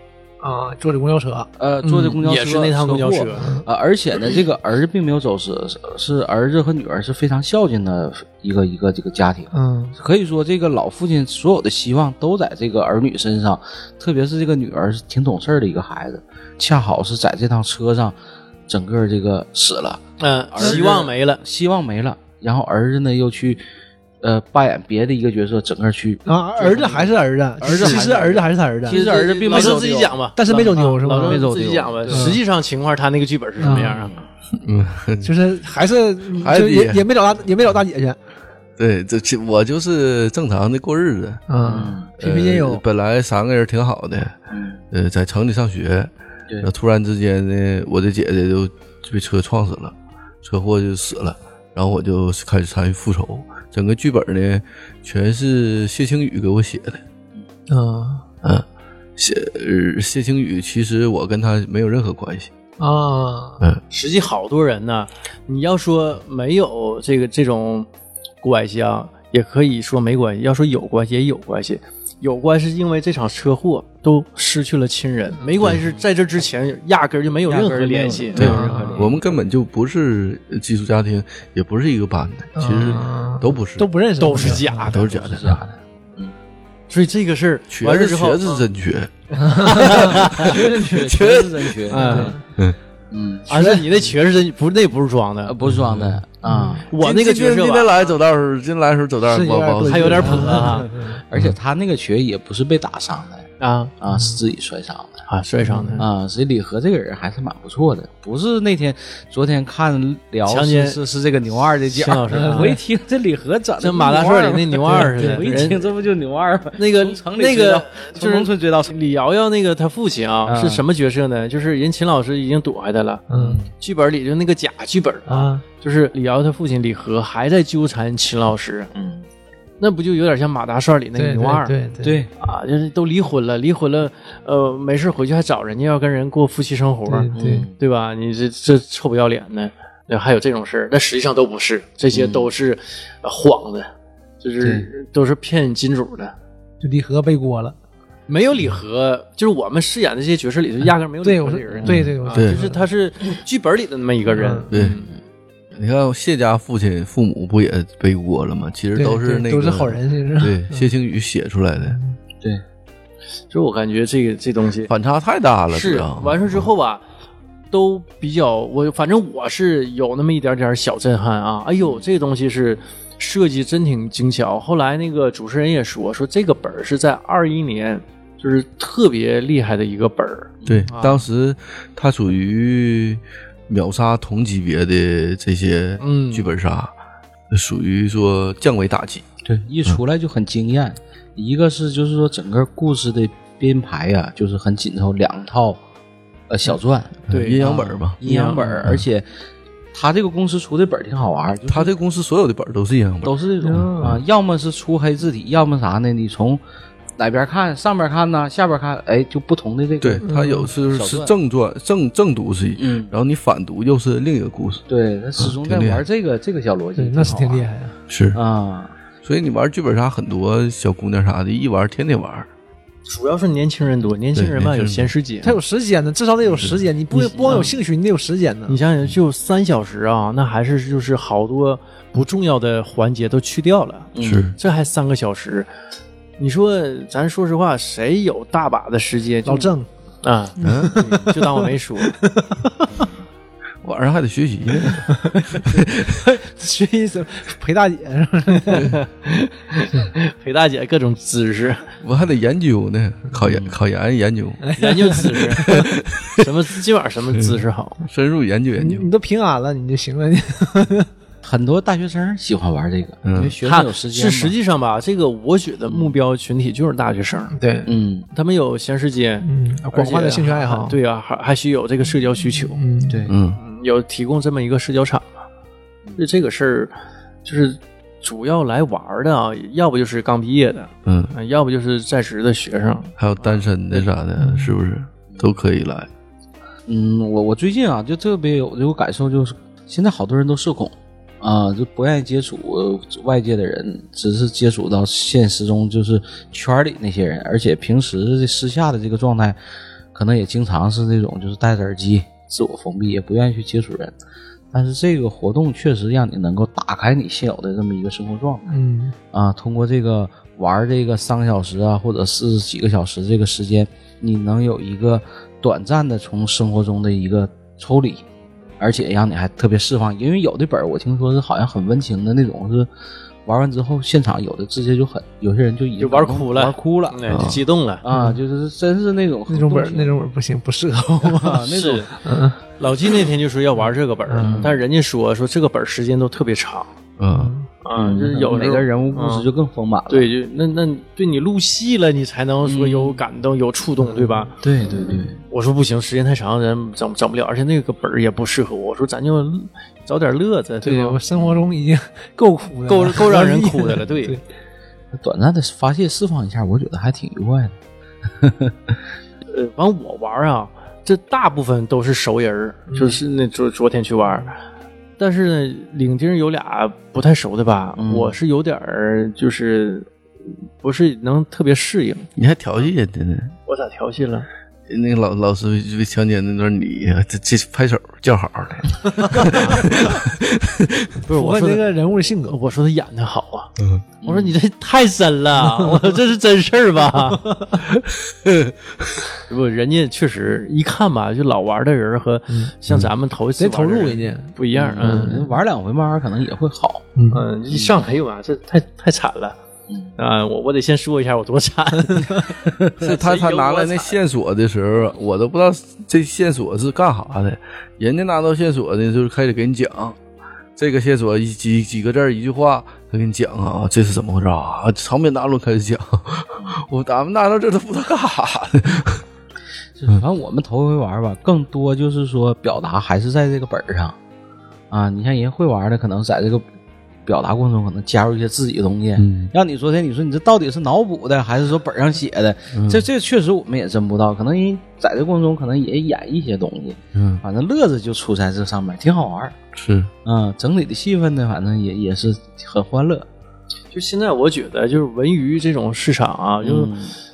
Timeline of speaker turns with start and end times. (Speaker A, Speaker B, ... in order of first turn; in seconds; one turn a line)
Speaker A: 0.4-1.5
Speaker B: 1.6-18.2
Speaker C: 1.8-3.5
Speaker A: 9.5-9.9
Speaker B: 18.7-23.6
Speaker C: 20.2-21.4
Speaker B: 24.2-26.9
Speaker A: 26.2-29.8
Speaker B: 27.6-30.2
Speaker C: 27.6-28.2
Speaker C: 28.9-34.2
Speaker A: 30.4-31.4
Speaker B: 31.1-32.4
Speaker A: 32.1-32.4
Speaker A: 33.6-34.0
Speaker D: 34.5-35.3
Speaker A: 35.2-38.2
Speaker D: 36.3-37.0
Speaker D: 38.8-41.5
Speaker A: 41.5-42.8
Speaker B: 41.6-42.1
Speaker D: 42.2-44.4
Speaker B: 44.5-44.8
Speaker D: 44.9-57.0
Speaker A: 57.7-58.2
Speaker D: 59.2-62.5
Speaker A: 62.8-63.6
Speaker C: 63.9-67.9
Speaker C: 68.4-78.8
Speaker B: 77.5-79.4
Speaker D: 78.4-85.6
Speaker A: 78.4-79.1
Speaker A: 82.6-85.6
Speaker C: 84.2-85.1
Speaker B: 85.4-85.6
Speaker C: 86.9-88.6
Speaker D: 87.7-91.8
Speaker A: 89.4-90.2
Speaker C: 89.5-90.6
Speaker B: 90.3-92.4
Speaker C: 91.9-92.4
Speaker A: 91.9-92.4
Speaker B: 93.1-93.5
Speaker C: 93.5-95.5
Speaker A: 93.5-93.8
Speaker B: 95.5-96.9
Speaker D: 95.7-96.2
Speaker A: 96.4-96.9
Speaker C: 96.9-98.0
Speaker D: 97.0-100.8
Speaker A: 99.3-101.2
Speaker C: 99.8-100.9
Speaker B: 100.6-103.5
Speaker C: 103.6-103.9
Speaker B: 104.0-105.2
Speaker A: 104.1-104.4
Speaker C: 105.3-106.1
Speaker A: 105.7-106.0
Speaker B: 106.0-118.9
Speaker C: 110.5-111.0
Speaker C: 111.9-112.8
Speaker A: 112.3-112.8
Speaker C: 113.8-115.8
Speaker A: 114.9-115.6
Speaker C: 116.8-123.2
Speaker B: 120.5-120.8
Speaker A: 123.3-123.6
Speaker B: 123.3-123.7
Speaker C: 123.8-128.9
Speaker A: 125.3-125.6
Speaker B: 128.9-129.2
Speaker C: 129.8-131.8
Speaker A: 131.2-132.2
Speaker B: 132.0-132.3
Speaker C: 132.4-143.9
Speaker A: 137.1-137.7
Speaker B: 137.3-137.7
Speaker B: 142.1-142.5
Speaker C: 144.4-146.3
Speaker B: 144.6-144.9
Speaker A: 146.8-147.8
Speaker C: 148.3-155.1
Speaker A: 151.2-152.8
Speaker D: 151.9-152.6
Speaker A: 154.3-154.7
Speaker D: 154.7-155.0
Speaker B: 154.7-155.1
Speaker D: 155.7-162.0
Speaker A: 158.9-160.9
Speaker A: 161.8-162.2
Speaker C: 163.5-164.9
Speaker D: 164.9-166.6
Speaker C: 165.7-167.0
Speaker C: 167.7-181.2
Speaker B: 180.6-180.9
Speaker D: 180.7-186.9
Speaker C: 186.0-186.5
Speaker D: 187.5-189.2
Speaker B: 189.4-195.8
Speaker B: 196.5-199.3
Speaker D: 197.3-198.2
Speaker C: 197.3-198.9
Speaker B: 199.9-201.9
Speaker D: 201.7-204.2
Speaker B: 203.2-206.6
Speaker A: 203.6-204.2
Speaker B: 207.2-211.3
Speaker D: 210.0-214.8
Speaker A: 210.2-210.7
Speaker B: 212.8-213.1
Speaker B: 214.9-217.7
Speaker D: 215.4-216.0
Speaker A: 217.0-218.0
Speaker D: 218.1-218.4
Speaker B: 218.3-218.9
Speaker D: 219.2-222.5
Speaker C: 223.1-225.6
Speaker D: 224.3-225.1
Speaker A: 225.4-228.8
Speaker C: 227.1-227.8
Speaker B: 227.4-227.7
Speaker C: 228.7-235.7
Speaker B: 234.2-234.5
Speaker D: 234.2-234.6
Speaker C: 236.4-242.2
Speaker A: 239.5-239.9
Speaker A: 240.6-243.0
Speaker D: 240.6-241.0
Speaker D: 243.8-246.2
Speaker A: 245.1-248.9
Speaker C: 248.7-251.9
Speaker D: 252.0-256.5
Speaker B: 253.4-253.8
Speaker A: 254.6-255.8
Speaker C: 254.8-255.7
Speaker C: 256.4-258.0
Speaker D: 258.1-259.1
Speaker A: 258.8-261.1
Speaker B: 261.4-264.6
Speaker D: 263.2-263.6
Speaker C: 263.6-267.6
Speaker A: 267.6-267.9
Speaker B: 267.9-268.3
Speaker C: 268.3-272.8
Speaker A: 269.4-271.0
Speaker A: 272.8-273.2
Speaker B: 273.1-273.4
Speaker D: 273.3-273.6
Speaker C: 273.6-275.4
Speaker C: 276.2-276.9
Speaker C: 277.4-283.6
Speaker D: 281.1-281.3
Speaker D: 283.2-286.1
Speaker A: 284.4-284.7
Speaker B: 285.3-285.6
Speaker B: 286.9-299.6
Speaker B: 300.1-304.1
Speaker B: 304.7-308.7
Speaker A: 308.7-309.1
Speaker B: 309.3-318.2
Speaker B: 318.8-322.9
Speaker B: 323.5-327.4
Speaker C: 326.0-328.0
Speaker D: 327.3-327.6
Speaker B: 328.0-330.1
Speaker A: 328.1-328.4
Speaker A: 329.5-331.7
Speaker B: 331.2-332.1
Speaker C: 331.7-332.1
Speaker A: 332.2-332.6
Speaker C: 332.8-336.9
Speaker A: 334.3-334.6
Speaker B: 334.4-334.8
Speaker D: 337.2-337.6
Speaker A: 337.3-337.7
Speaker C: 337.8-339.5
Speaker B: 337.9-340.3
Speaker C: 340.1-344.5
Speaker B: 342.6-343.2
Speaker B: 344.6-345.4
Speaker C: 345.5-351.2
Speaker A: 350.8-354.4
Speaker C: 352.9-354.4
Speaker B: 355.1-357.8
Speaker B: 358.3-359.0
Speaker C: 359.5-364.6
Speaker A: 362.9-363.2
Speaker C: 365.2-370.1
Speaker B: 368.0-368.4
Speaker C: 370.8-372.3
Speaker D: 372.4-373.6
Speaker C: 373.7-374.5
Speaker D: 374.9-381.2
Speaker A: 379.3-379.6
Speaker C: 379.5-379.8
Speaker A: 381.3-382.6
Speaker C: 381.3-381.8
Speaker C: 382.5-387.6
Speaker D: 383.8-384.0
Speaker B: 384.2-384.6
Speaker A: 385.6-386.1
Speaker A: 387.1-387.9
Speaker D: 388.3-389.3
Speaker C: 389.5-395.4
Speaker A: 393.6-395.6
Speaker B: 394.8-397.1
Speaker A: 397.2-397.4
Speaker C: 397.3-399.6
Speaker B: 399.9-400.1
Speaker C: 400.2-404.2
Speaker A: 402.1-402.4
Speaker B: 402.7-402.9
Speaker D: 403.0-410.2
Speaker D: 410.8-419.2
Speaker B: 420.0-424.2
Speaker B: 424.9-426.6
Speaker B: 427.3-439.6
Speaker D: 429.2-429.5
Speaker D: 432.7-433.0
Speaker D: 437.1-437.4
Speaker D: 439.8-440.1
Speaker B: 440.2-443.3
Speaker C: 443.9-446.9
Speaker B: 446.6-447.1